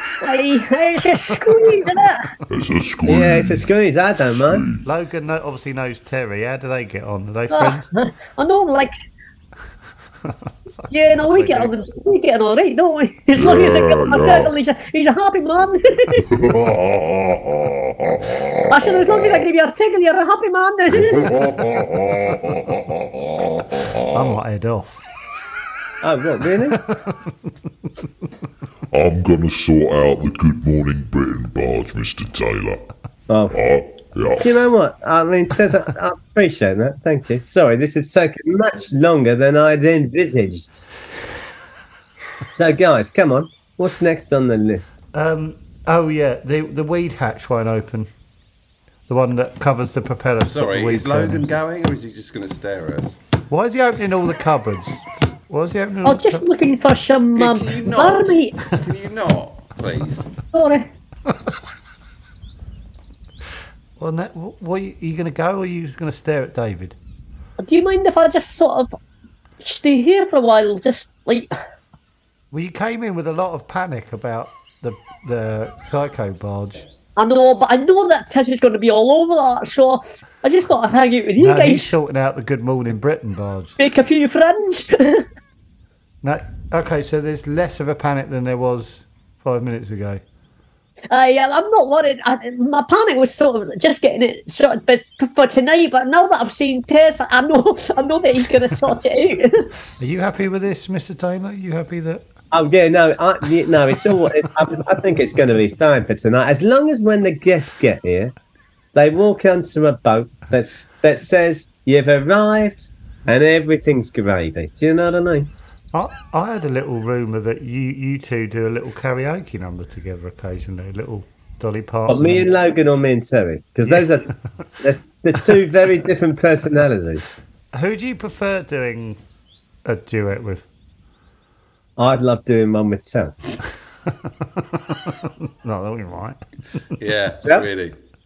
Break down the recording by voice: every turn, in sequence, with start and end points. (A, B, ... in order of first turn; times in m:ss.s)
0:00.2-0:02.3 A
0:02.5-0:03.7 B
0:03.1-0:04.6 C
0:04.4-0:04.9 B
0:04.8-0:07.9 D
0:07.5-0:08.9 A
0:10.9-0:16.2 A
0:11.3-0:11.7 D
0:13.3-0:14.6 B
0:16.2-0:19.4 B
0:18.7-0:21.3 A
0:20.9-0:24.4 B
0:24.1-0:25.0 D
0:26.0-0:26.8 C
0:26.9-0:27.3 D
0:28.9-0:32.9 B
0:33.3-0:33.6 C
0:33.5-0:34.5 B
0:34.4-0:40.8 C
0:42.5-0:44.9 C
0:45.1-0:48.1 D
0:49.1-0:51.5 D
0:50.4-0:53.2 E
0:53.5-0:56.5 D
0:56.0-0:58.6 A
0:57.4-1:00.3 E
1:00.5-1:00.9 A
1:04.0-1:07.0 D
1:07.6-1:08.9 A
1:09.6-1:11.5 A
1:12.5-1:16.8 D
1:17.2-1:21.9 A
1:21.4-1:23.8 D
1:23.8-1:25.3 A
1:26.2-1:30.2 D
1:31.1-1:39.7 A
1:40.0-1:42.2 D
1:42.5-1:48.3 C
1:48.9-1:55.5 C
1:55.9-2:02.5 D
2:02.1-2:07.3 C
2:07.7-2:09.2 D
2:09.8-2:10.6 D
2:12.0-2:13.4 C
2:14.3-2:16.4 D
2:17.0-2:17.9 E